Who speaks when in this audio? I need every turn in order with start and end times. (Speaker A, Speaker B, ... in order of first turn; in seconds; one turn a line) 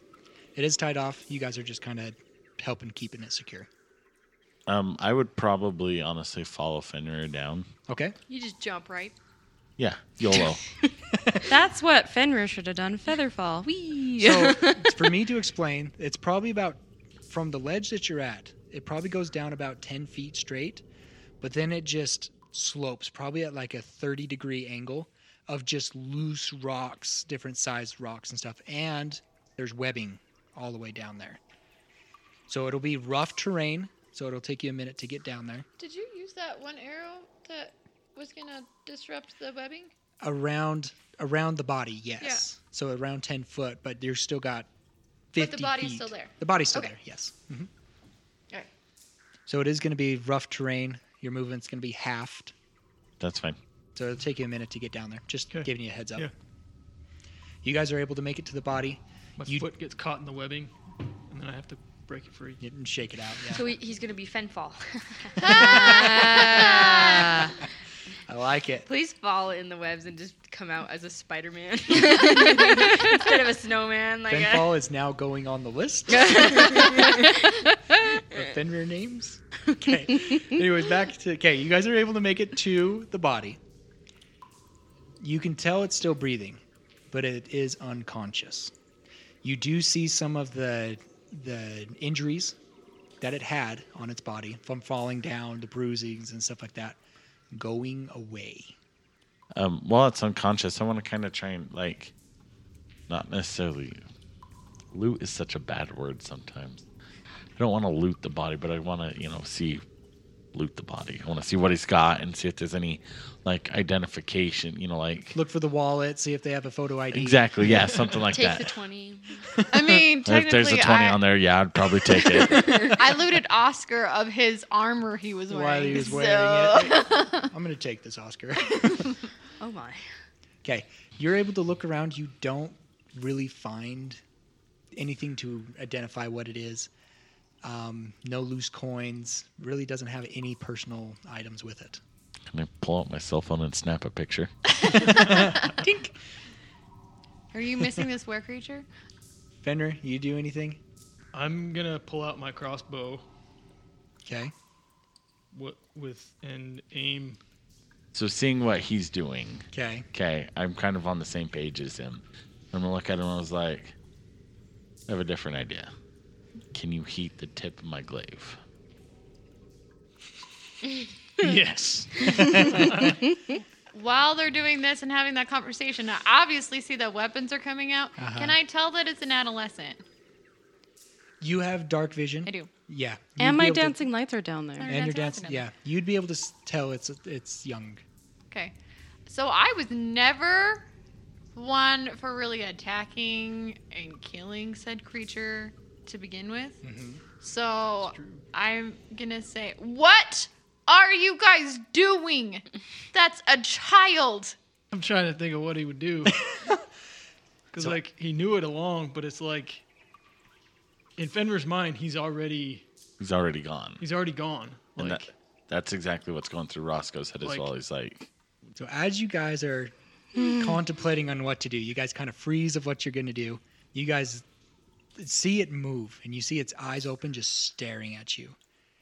Speaker A: 0.5-3.7
Speaker B: 4.7-7.7
Speaker A: 7.9-8.1
Speaker C: 8.3-9.1
Speaker B: 9.8-10.6
Speaker A: 11.1-11.4
Speaker D: 11.5-15.0
Speaker A: 14.2-20.8
Speaker A: 21.4-31.4
Speaker A: 32.5-35.6
Speaker E: 35.8-39.9
Speaker A: 40.2-44.7
Speaker A: 45.3-47.7
Speaker E: 45.4-46.9
Speaker A: 49.5-52.5
Speaker B: 53.2-53.6
Speaker A: 53.9-56.3
Speaker F: 55.5-56.3
Speaker A: 57.6-59.7
Speaker F: 59.4-60.7
Speaker F: 61.3-62.6
Speaker A: 62.6-63.6
Speaker C: 63.5-67.3
Speaker E: 65.4-67.3
Speaker D: 65.5-67.5
Speaker A: 68.3-68.9
Speaker C: 68.9-74.7
Speaker A: 74.3-77.2
Speaker C: 76.1-78.5
Speaker A: 78.2-83.6
Speaker A: 85.2-88.7
Speaker A: 89.4-92.6
Speaker A: 93.2-97.0
Speaker A: 97.5-98.8
Speaker B: 99.5-102.1
Speaker B: 103.1-104.0
Speaker B: 104.9-106.8
Speaker B: 107.5-109.8
Speaker B: 110.5-115.3
Speaker A: 115.3-117.5
Speaker B: 117.1-118.7
Speaker C: 118.3-119.5
Speaker E: 119.7-121.2
Speaker B: 120.2-123.0
Speaker C: 122.5-122.9
Speaker E: 122.8-127.5
Speaker A: 125.5-129.2
Speaker C: 126.0-127.0
Speaker C: 129.6-130.0
Speaker A: 130.6-134.2
Speaker A: 134.9-136.9
Speaker A: 137.6-142.0
Speaker B: 142.5-145.1
Speaker A: 145.0-146.2
Speaker E: 147.5-148.9
Speaker A: 149.6-150.8
Speaker F: 151.3-153.2
Speaker A: 154.2-154.5
Speaker F: 155.5-157.4
Speaker B: 158.1-163.9
Speaker A: 159.7-160.1
Speaker B: 165.1-165.9
Speaker B: 166.7-168.6
Speaker F: 171.4-173.2
Speaker E: 173.9-180.0
Speaker A: 178.2-178.6
Speaker A: 181.4-184.0
Speaker E: 182.4-182.7
Speaker D: 183.4-185.0
Speaker E: 184.8-185.7
Speaker A: 184.8-188.0
Speaker E: 189.3-190.8
Speaker E: 191.5-196.8
Speaker A: 196.8-197.2
Speaker E: 197.4-204.6
Speaker F: 198.0-198.4
Speaker F: 204.9-206.5
Speaker A: 206.5-206.8
Speaker F: 207.7-209.8
Speaker F: 211.2-212.8
Speaker B: 213.2-214.0
Speaker F: 214.0-215.3
Speaker B: 215.0-218.3
Speaker F: 217.4-217.7
Speaker A: 218.8-224.4
Speaker A: 225.2-228.6